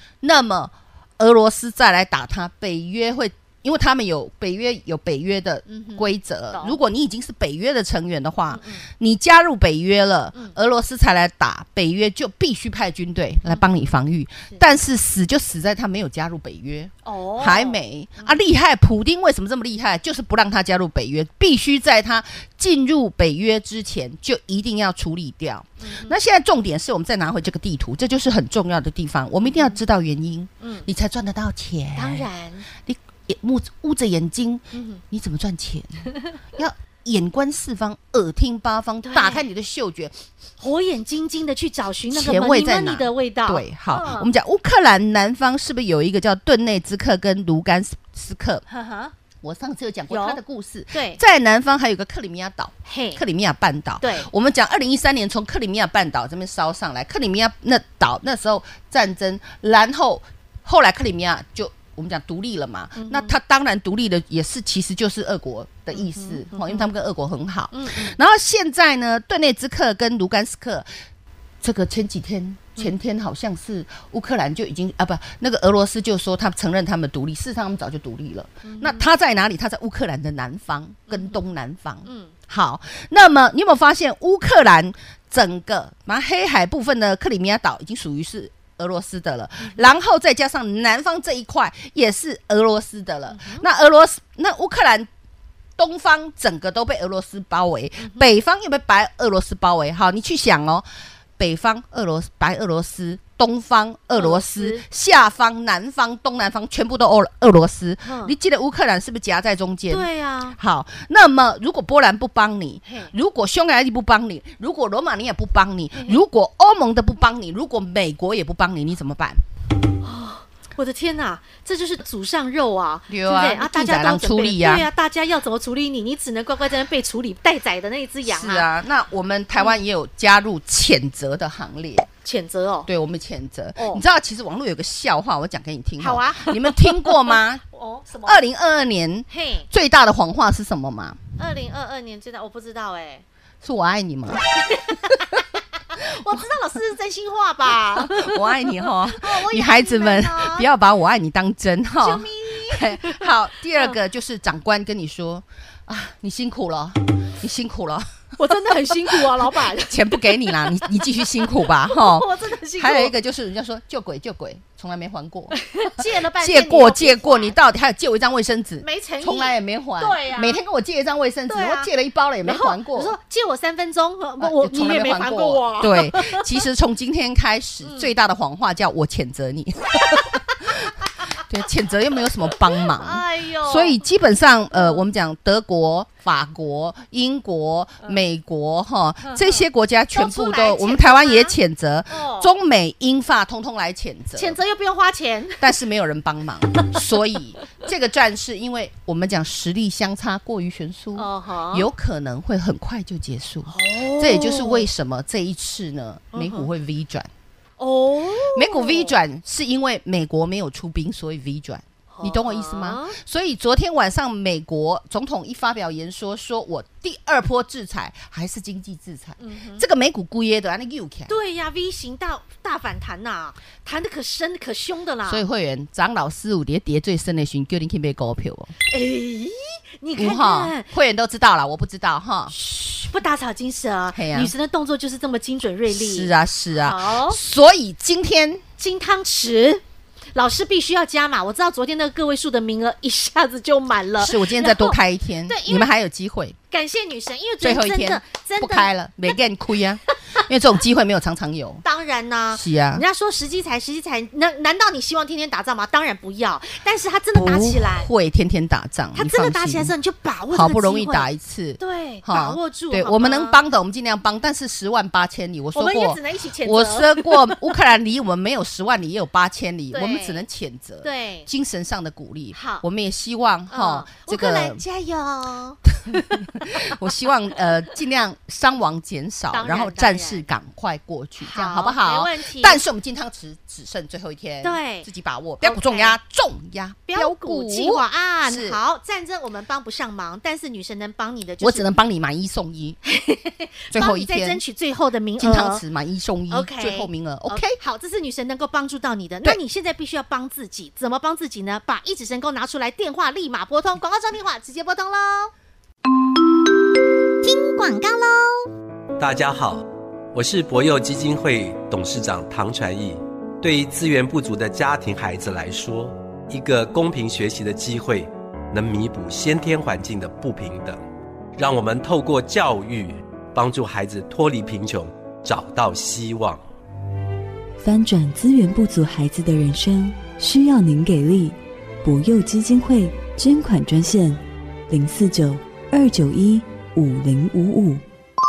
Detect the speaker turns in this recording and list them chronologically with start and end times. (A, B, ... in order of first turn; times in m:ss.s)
0:00.2-0:32.3 A
0:05.7-0:06.8 B
0:08.5-0:08.8 B
0:13.4-0:13.9 B
0:17.0-0:18.3 B
0:25.8-0:26.1 B
0:29.4-0:29.8 B
0:30.6-0:30.9 B
0:32.0-0:32.6 B
0:32.8-0:40.1 A
0:34.7-0:35.0 B
0:39.0-0:39.4 B
0:40.6-0:44.3 B
0:42.1-0:48.6 A
0:48.7-0:49.1 B
0:49.4-1:10.9 A
0:50.1-0:50.4 B
0:50.9-0:51.2 B
0:52.8-0:53.2 B
0:54.0-0:54.3 B
1:03.0-1:03.4 B
1:05.9-1:06.9 B
1:07.7-1:08.2 B
1:11.6-1:35.1 A
1:18.6-1:19.1 B
1:21.1-1:21.4 B
1:22.0-1:22.3 B
1:29.6-1:29.8 B
1:33.3-1:33.6 B
1:35.8-1:40.8 A
1:38.0-1:38.3 B
1:41.4-1:59.4 A
1:44.1-1:44.8 B
1:48.0-1:48.3 B
1:49.9-1:50.6 B
1:52.8-1:53.1 B
1:55.9-1:56.2 B
2:00.0-2:08.7 B
2:03.1-2:04.9 A
2:08.2-2:12.1 A
2:12.2-2:12.9 B
2:12.8-2:17.6 A
2:13.8-2:14.0 B
2:16.0-2:18.4 B
2:18.2-2:21.2 A
2:19.3-2:19.7 B
2:21.4-2:23.2 B
2:23.6-2:25.4 A
2:24.6-2:25.4 B
2:25.9-2:30.7 B
2:27.9-2:53.1 A
2:32.0-2:34.0 B
2:38.4-2:43.2 B
2:45.6-2:47.6 B
2:48.8-2:50.6 B
2:51.5-2:51.9 B
2:52.4-2:56.6 B
2:54.4-3:14.6 A
3:02.5-3:04.0 B
3:04.7-3:05.0 B
3:09.2-3:11.6 B
3:12.1-3:12.5 B
3:14.3-3:15.6 B
3:15.6-3:27.3 A
3:21.2-3:21.9 B
3:23.7-3:24.9 B
3:26.3-3:26.7 B
3:27.8-3:29.2 B
3:28.5-3:41.3 A
3:32.1-3:33.2 B
3:39.4-3:39.8 B
3:41.3-3:45.4 B
3:45.2-3:48.7 A
3:48.9-3:50.9 B
3:50.2-3:52.5 A
3:52.5-3:57.4 B
3:54.1-3:54.5 A
3:55.9-3:58.6 A
3:58.8-3:59.8 B
4:00.3-4:05.9 B
4:04.2-4:06.6 A
4:06.7-4:09.4 B
4:07.6-4:11.8 A
4:11.8-4:18.1 B
4:12.5-4:13.0 A
4:17.3-4:19.9 A
4:19.1-4:21.3 B
4:20.5-4:34.8 A
4:21.8-4:23.6 B
4:25.7-4:27.6 B
4:29.9-4:30.4 B
4:31.0-4:31.5 B
4:32.5-4:32.8 B
4:33.7-4:36.5 B
4:36.1-4:48.8 A
4:39.5-4:40.5 B
4:41.4-4:42.8 B
4:44.6-4:45.1 B
4:45.6-4:46.2 B
4:47.1-4:51.9 B
4:51.6-4:53.0 A
4:53.0-4:55.8 B
4:53.9-4:54.6 A
4:55.4-4:57.8 A
4:56.5-5:05.5 B
5:07.4-5:08.7 B
5:09.2-5:21.0 C
5:21.6-5:26.6 C
5:27.8-5:38.0 D